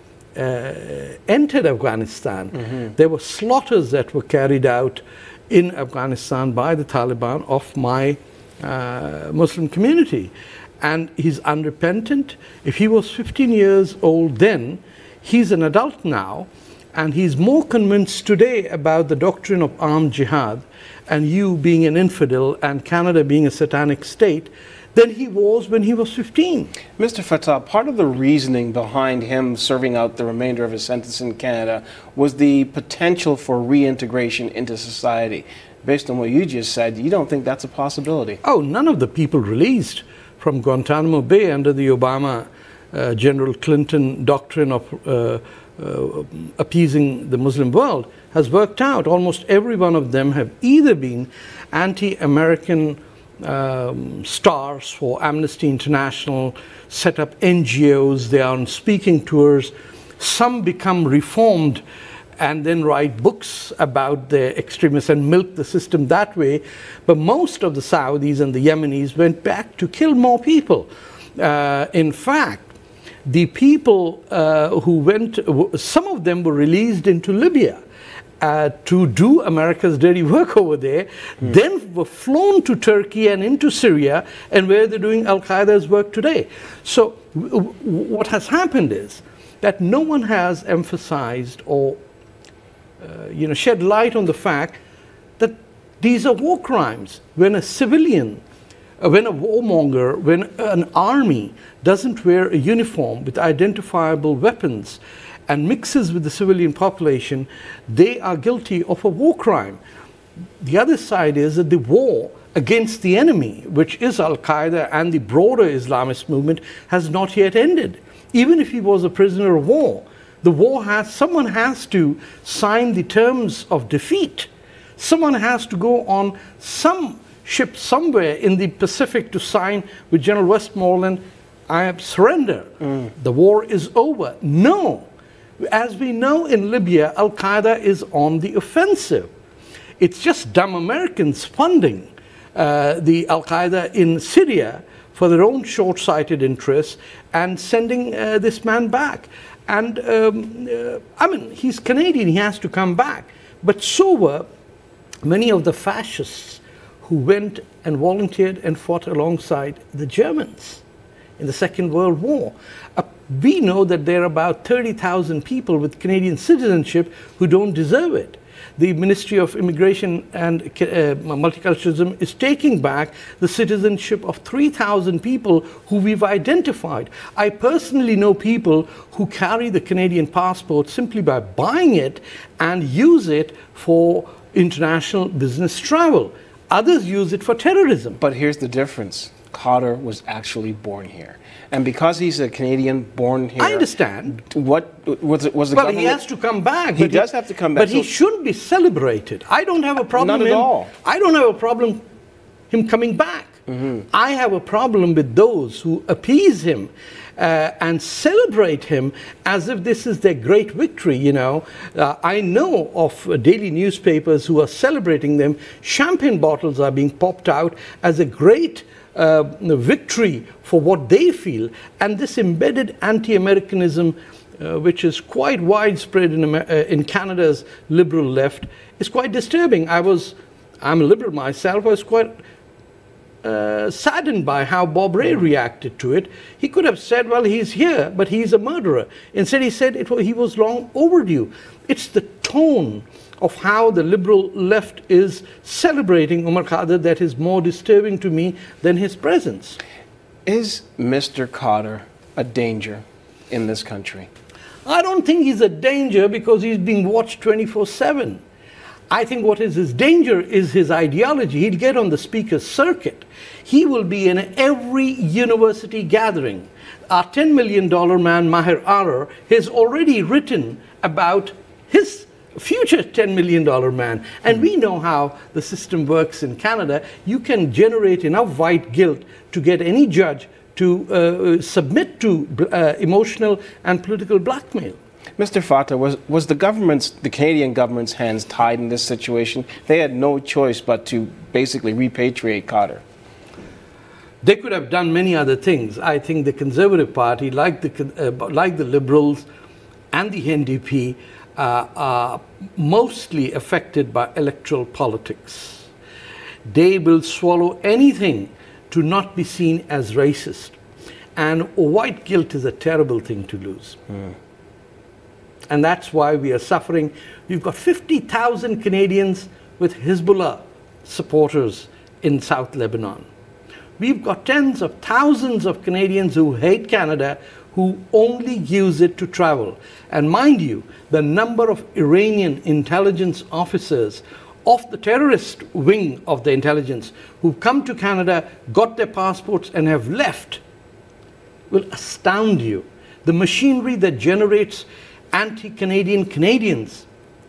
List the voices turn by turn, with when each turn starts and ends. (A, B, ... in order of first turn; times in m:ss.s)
0:00.3-0:26.7 A
0:27.0-0:38.4 B
0:38.4-1:01.8 A
1:02.4-1:12.7 A
1:13.2-1:17.8 A
1:18.4-1:32.0 A
1:33.0-1:34.8 A
1:35.4-1:38.4 A
1:39.0-1:49.8 A
1:50.6-2:15.0 A
2:15.6-2:19.3 A
2:20.0-2:34.5 A
2:35.2-2:40.8 A
2:41.4-3:08.2 A
3:08.2-3:13.9 B
3:13.6-3:14.4 A
3:14.4-3:16.2 B
3:15.7-3:22.0 A
3:17.0-3:18.1 B
3:20.1-3:20.9 B
3:22.7-3:23.6 A
3:24.1-3:52.4 A
3:53.4-4:09.8 A
4:10.4-4:14.3 B
4:14.8-4:18.4 A
4:19.1-4:45.0 A
4:45.4-4:53.0 B
4:54.4-4:59.4 A
5:00.1-5:05.9 A
5:06.6-5:10.8 A
5:11.4-5:14.0 A
5:15.7-5:23.3 A
5:24.0-5:40.6 A
5:41.7-5:47.0 A